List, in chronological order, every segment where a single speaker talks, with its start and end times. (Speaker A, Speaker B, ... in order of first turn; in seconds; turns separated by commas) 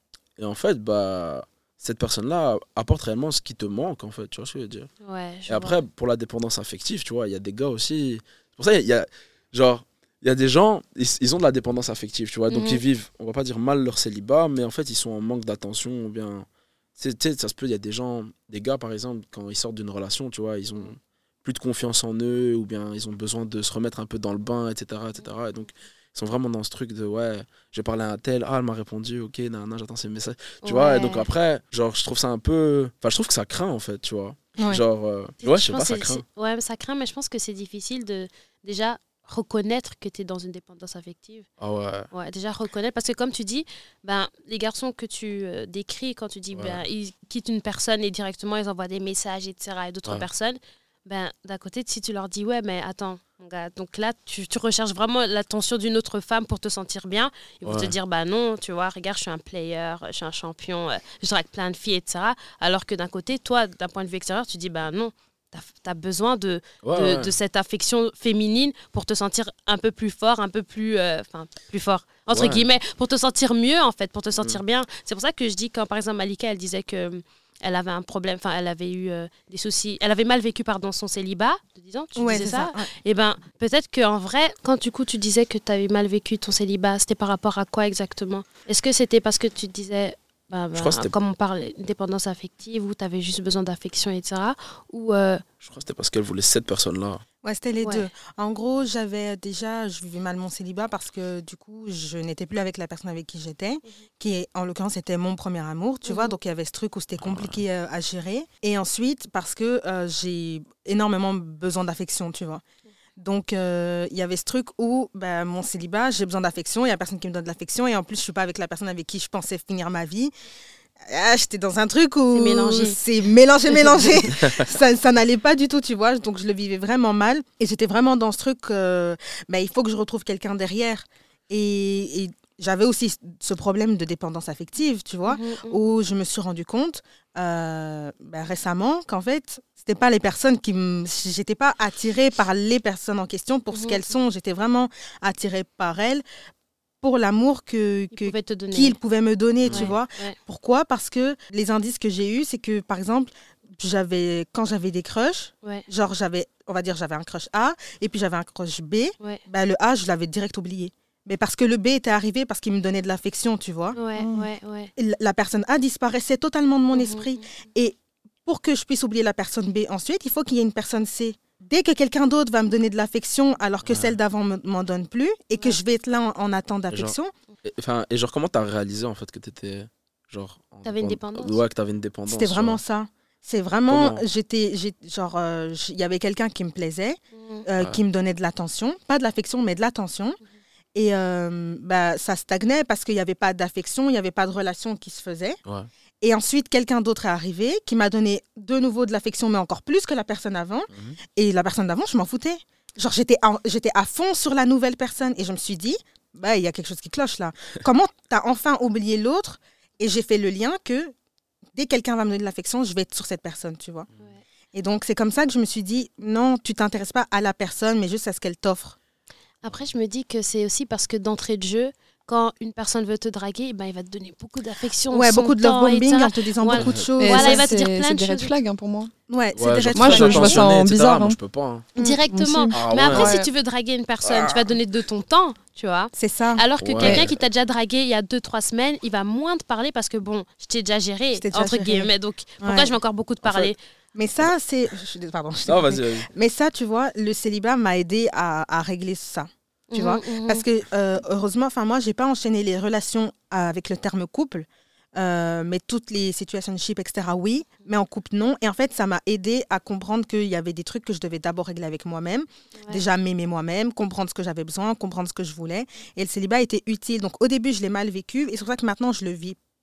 Speaker A: 0.4-4.9, Speaker B: 5.0-5.8, Speaker A: 5.5-36.2, Speaker B: 12.5-12.8, Speaker B: 30.6-31.2, Speaker B: 35.4-41.5, Speaker A: 41.6-42.1, Speaker B: 42.1-95.4, Speaker A: 46.5-46.8, Speaker A: 57.6-57.9, Speaker A: 66.8-67.3, Speaker A: 72.3-72.6, Speaker C: 82.2-82.8, Speaker A: 90.7-91.1, Speaker A: 95.6-97.2, Speaker C: 97.4-112.6, Speaker B: 97.8-98.1, Speaker B: 106.0-106.3, Speaker A: 107.2-107.6, Speaker C: 113.2-120.3, Speaker C: 121.0-146.2, Speaker B: 122.3-123.0, Speaker B: 123.7-124.3, Speaker B: 135.2-135.9, Speaker B: 143.7-144.0, Speaker C: 147.0-164.0, Speaker B: 148.1-149.0, Speaker A: 149.6-149.9, Speaker B: 149.7-150.3, Speaker B: 163.9-164.9, Speaker D: 164.2-164.4, Speaker C: 164.9-177.3, Speaker B: 166.9-167.3, Speaker A: 173.8-174.2, Speaker A: 176.9-182.8, Speaker B: 180.8-181.6, Speaker C: 182.3-190.4, Speaker A: 183.9-184.2, Speaker B: 187.3-187.6, Speaker C: 190.9-195.6, Speaker C: 196.2-211.1, Speaker A: 200.9-201.2, Speaker C: 211.7-214.1, Speaker C: 214.7-218.9, Speaker B: 219.6-228.5, Speaker C: 225.1-227.6, Speaker A: 226.7-227.1, Speaker D: 227.2-229.1, Speaker C: 229.3-230.6, Speaker A: 229.5-231.9, Speaker D: 229.9-231.4, Speaker B: 232.0-243.8, Speaker D: 232.3-233.5, Speaker A: 232.7-233.4, Speaker A: 234.2-234.6, Speaker C: 236.2-236.6, Speaker A: 236.8-237.3, Speaker D: 237.0-237.3, Speaker C: 241.3-242.1, Speaker C: 242.6-242.9, Speaker A: 243.4-243.7, Speaker C: 244.1-269.6, Speaker A: 245.6-246.3, Speaker B: 249.9-250.6